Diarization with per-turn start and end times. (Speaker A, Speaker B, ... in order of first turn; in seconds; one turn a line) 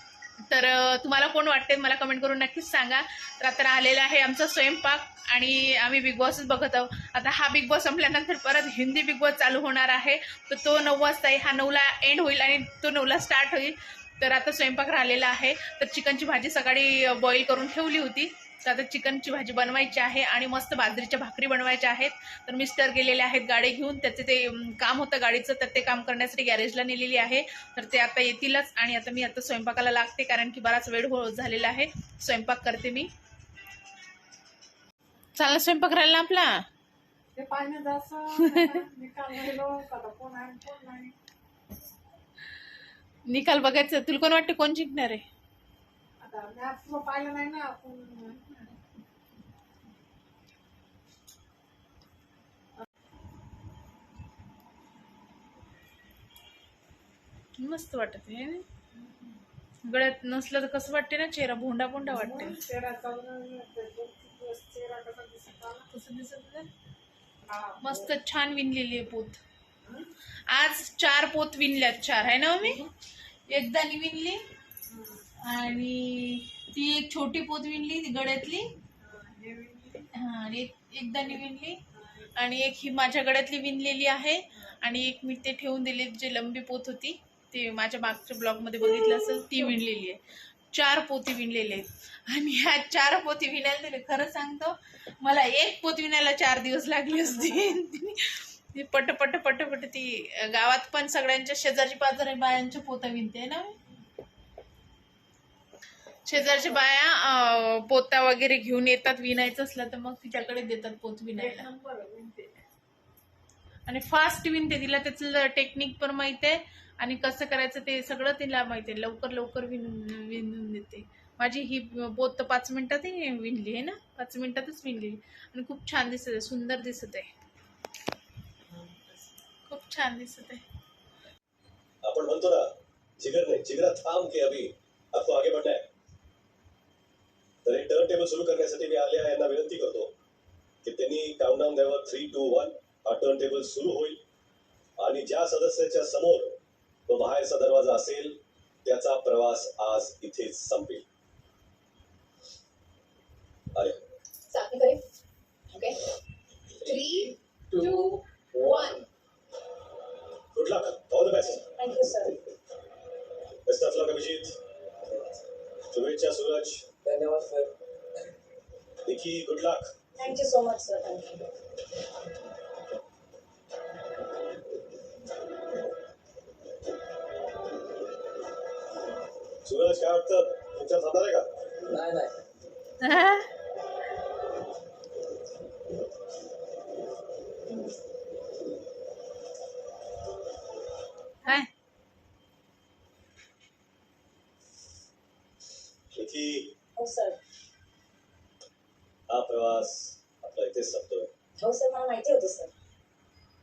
Speaker A: 0.4-33.1
Speaker A: 35.4-36.6
Speaker B: 37.4-41.1
Speaker A: 38.4-38.8
Speaker A: 43.3-45.2
Speaker B: 46.2-48.8
Speaker A: 57.6-58.6
Speaker B: 59.0-59.4
Speaker A: 59.8-62.6
Speaker B: 62.1-65.9
Speaker A: 65.9-66.7
Speaker B: 67.5-68.0
Speaker A: 67.8-69.4
Speaker A: 70.5-72.9
Speaker A: 73.5-74.4
Speaker A: 75.4-78.7
Speaker B: 79.0-80.1
Speaker A: 80.1-81.8
Speaker A: 82.3-90.2
Speaker A: 90.7-103.8
Speaker A: 106.2-111.7
Speaker B: 111.4-112.6
Speaker A: 113.9-127.3
Speaker A: 129.7-130.6
Speaker C: 132.0-135.8
Speaker C: 137.6-140.1
Speaker C: 140.8-144.2
Speaker C: 145.0-151.0
Speaker C: 153.8-154.1
Speaker D: 154.5-155.0
Speaker D: 155.7-156.0
Speaker D: 156.8-159.0
Speaker E: 157.7-159.0
Speaker C: 160.5-161.7
Speaker D: 161.8-162.4
Speaker C: 163.7-164.6
Speaker E: 165.1-165.3
Speaker C: 165.9-166.9
Speaker E: 167.0-167.7
Speaker C: 169.1-169.9
Speaker D: 170.2-171.5
Speaker C: 179.6-181.5
Speaker E: 181.9-182.3
Speaker A: 183.0-183.5
Speaker C: 196.1-196.7
Speaker D: 197.0-197.4
Speaker C: 199.3-201.3
Speaker D: 201.6-202.7